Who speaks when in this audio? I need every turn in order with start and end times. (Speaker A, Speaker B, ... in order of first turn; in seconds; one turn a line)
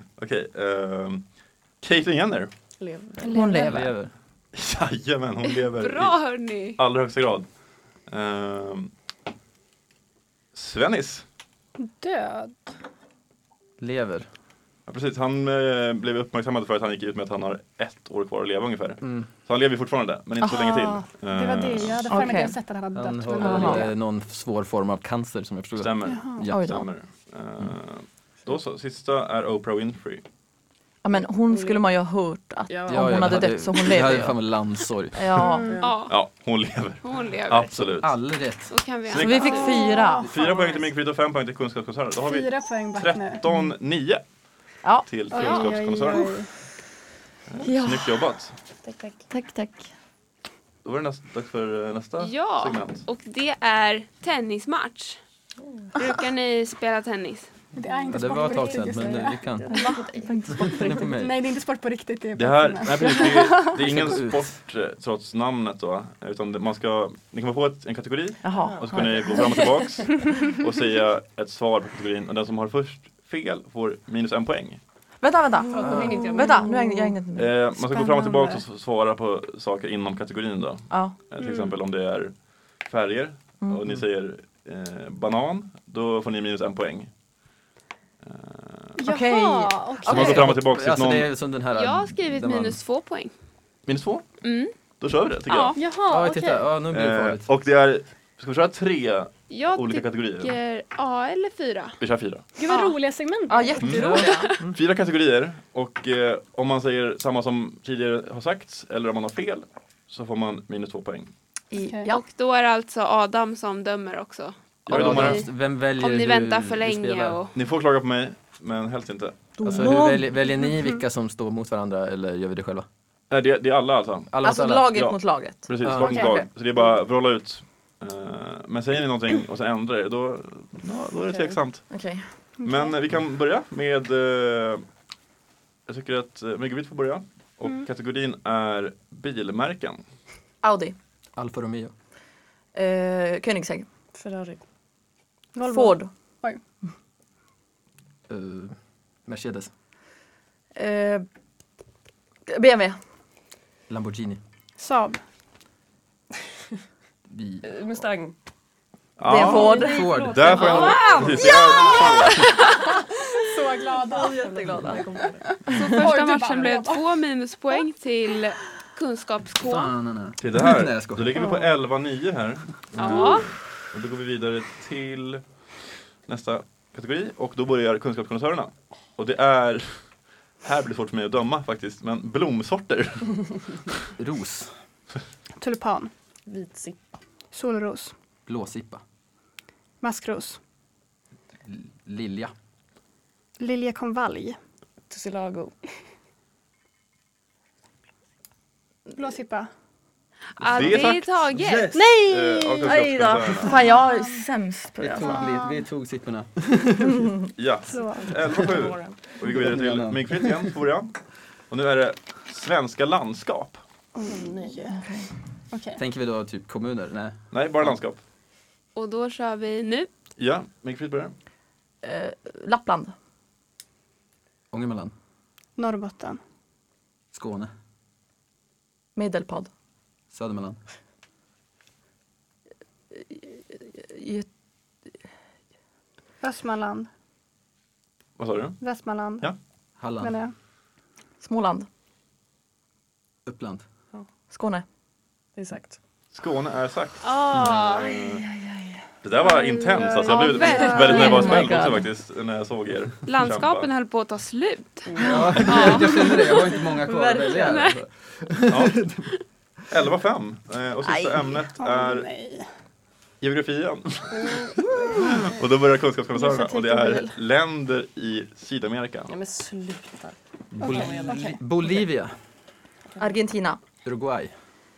Speaker A: 0.2-2.5
Speaker B: 2.8-3.6
Speaker C: 3.2-4.0
Speaker D: 3.3-3.9
Speaker E: 3.6-4.1
Speaker A: 4.5-7.5
Speaker F: 5.7-6.8
Speaker A: 8.1-8.9
Speaker A: 10.5-11.2
Speaker C: 11.8-12.7
Speaker E: 13.8-14.3
Speaker A: 14.9-22.1
Speaker E: 19.0-19.3
Speaker D: 20.4-20.9
Speaker C: 20.5-23.9
Speaker D: 22.1-22.6
Speaker E: 22.9-26.6
Speaker D: 23.4-23.9
Speaker A: 25.8-30.2
Speaker C: 26.0-26.5
Speaker D: 26.4-26.9
Speaker D: 31.0-35.7
Speaker B: 31.5-31.9
Speaker B: 32.7-33.5
Speaker E: 32.9-35.4
Speaker C: 35.3-35.8
Speaker B: 35.6-36.0
Speaker F: 35.8-36.3
Speaker A: 36.1-38.2
Speaker F: 37.0-37.9
Speaker E: 37.8-38.8
Speaker F: 38.7-39.8
Speaker A: 39.1-39.7
Speaker D: 39.1-40.3
Speaker C: 39.3-40.9
Speaker A: 40.3-44.2
Speaker C: 42.2-43.4
Speaker A: 45.0-46.4
Speaker C: 45.3-46.5
Speaker F: 45.4-45.7
Speaker A: 47.5-48.5
Speaker D: 47.6-48.2
Speaker B: 48.8-49.3
Speaker D: 49.3-49.8
Speaker A: 50.8-53.0
Speaker F: 52.2-55.2
Speaker B: 55.6-55.9
Speaker F: 56.0-57.5
Speaker C: 57.7-60.1
Speaker B: 57.9-60.9
Speaker E: 58.1-59.8
Speaker D: 60.0-61.1
Speaker E: 60.6-61.4
Speaker C: 61.1-63.9
Speaker A: 62.3-74.8
Speaker E: 63.8-64.6
Speaker D: 68.4-70.1
Speaker B: 68.5-69.3
Speaker D: 75.2-77.5
Speaker B: 75.7-77.1
Speaker E: 75.8-76.1
Speaker A: 77.3-87.1
Speaker C: 77.7-78.6
Speaker D: 80.9-81.2
Speaker A: 88.2-89.0
Speaker C: 89.0-90.5
Speaker D: 89.0-90.5
Speaker A: 90.0-91.3
Speaker E: 90.1-92.8
Speaker F: 91.7-93.3
Speaker A: 93.8-95.8
Speaker F: 94.4-94.7
Speaker F: 95.5-95.8
Speaker C: 95.7-96.7
Speaker E: 96.0-97.5
Speaker A: 96.9-100.5
Speaker F: 99.5-102.0
Speaker A: 102.0-102.4
Speaker C: 102.5-104.3
Speaker D: 103.5-104.5
Speaker A: 103.8-104.1
Speaker E: 103.8-104.8
Speaker A: 104.7-111.3
Speaker D: 111.7-112.2
Speaker C: 111.7-112.1
Speaker F: 112.1-117.5
Speaker A: 114.9-115.5
Speaker E: 114.9-117.4
Speaker A: 117.5-119.9
Speaker D: 119.6-120.5
Speaker E: 119.6-122.8
Speaker A: 123.3-124.3
Speaker E: 124.3-125.0
Speaker D: 124.4-126.5
Speaker A: 124.9-131.9
Speaker E: 125.8-126.3
Speaker C: 126.0-126.4
Speaker D: 131.9-132.3
Speaker C: 132.6-132.9
Speaker A: 132.6-134.8
Speaker A: 135.9-140.0
Speaker D: 140.6-140.9
Speaker E: 141.3-141.9
Speaker D: 142.7-143.9
Speaker B: 144.1-144.6
Speaker C: 145.5-146.6
Speaker D: 145.6-146.1
Speaker E: 148.3-149.7
Speaker D: 150.7-151.2
Speaker D: 152.5-153.0
Speaker E: 153.9-154.4
Speaker C: 154.8-155.2
Speaker E: 157.3-158.0
Speaker B: 157.6-158.3
Speaker A: 159.2-162.4
Speaker D: 159.2-160.3
Speaker B: 159.4-162.1
Speaker E: 159.7-162.3
Speaker F: 160.6-161.3
Speaker C: 160.7-162.4
Speaker C: 163.4-167.0
Speaker D: 164.1-166.1
Speaker B: 164.2-165.7
Speaker F: 165.7-169.9
Speaker E: 169.7-171.4
Speaker A: 170.4-175.4
Speaker C: 171.3-171.8
Speaker F: 173.0-173.4
Speaker A: 176.2-183.9
Speaker E: 184.2-184.8
Speaker C: 185.6-186.1
Speaker B: 186.4-187.0
Speaker C: 187.5-188.1
Speaker E: 188.4-189.0
Speaker C: 190.0-190.6
Speaker E: 191.6-192.5
Speaker C: 193.6-194.6
Speaker B: 195.1-196.1
Speaker C: 199.1-199.7
Speaker F: 200.6-201.9
Speaker A: 200.6-201.4
Speaker E: 201.5-202.1
Speaker C: 201.9-204.5
Speaker A: 202.2-203.8
Speaker D: 202.8-205.5
Speaker E: 205.0-207.3
Speaker C: 205.1-205.8
Speaker A: 207.6-211.1
Speaker C: 207.9-208.3
Speaker B: 207.9-209.2
Speaker E: 209.4-210.7
Speaker A: 211.7-213.8
Speaker C: 214.1-215.0
Speaker B: 214.2-214.8
Speaker D: 214.9-215.3
Speaker C: 215.7-216.0
Speaker E: 216.0-217.9
Speaker A: 217.5-218.2
Speaker F: 218.9-220.1
Speaker A: 220.4-221.3
Speaker D: 222.0-223.1
Speaker E: 224.7-225.1
Speaker C: 225.8-226.4
Speaker E: 227.3-227.7
Speaker D: 229.1-229.7
Speaker E: 230.3-230.8
Speaker D: 233.1-234.5
Speaker C: 236.4-237.1
Speaker A: 238.4-238.8
Speaker C: 238.8-239.5
Speaker E: 240.0-240.4
Speaker C: 240.2-240.5
Speaker D: 241.4-241.9
Speaker E: 243.4-243.8
Speaker D: 244.5-244.8
Speaker B: 245.6-246.0
Speaker A: 246.3-248.5
Speaker F: 247.2-248.0
Speaker A: 249.2-253.9
Speaker C: 249.4-251.6
Speaker F: 250.3-251.6
Speaker D: 250.9-252.1
Speaker F: 253.2-256.7
Speaker B: 255.1-256.0
Speaker D: 255.2-256.3
Speaker E: 255.2-259.3
Speaker D: 257.0-257.9
Speaker F: 257.4-258.0
Speaker A: 258.7-259.0
Speaker A: 259.9-262.3
Speaker D: 261.1-261.6
Speaker C: 261.8-262.7
Speaker A: 263.4-269.3
Speaker B: 264.3-265.3
Speaker C: 266.3-267.4
Speaker B: 269.3-271.6
Speaker E: 270.7-272.4
Speaker C: 270.8-271.5
Speaker D: 273.2-273.8
Speaker E: 274.0-274.5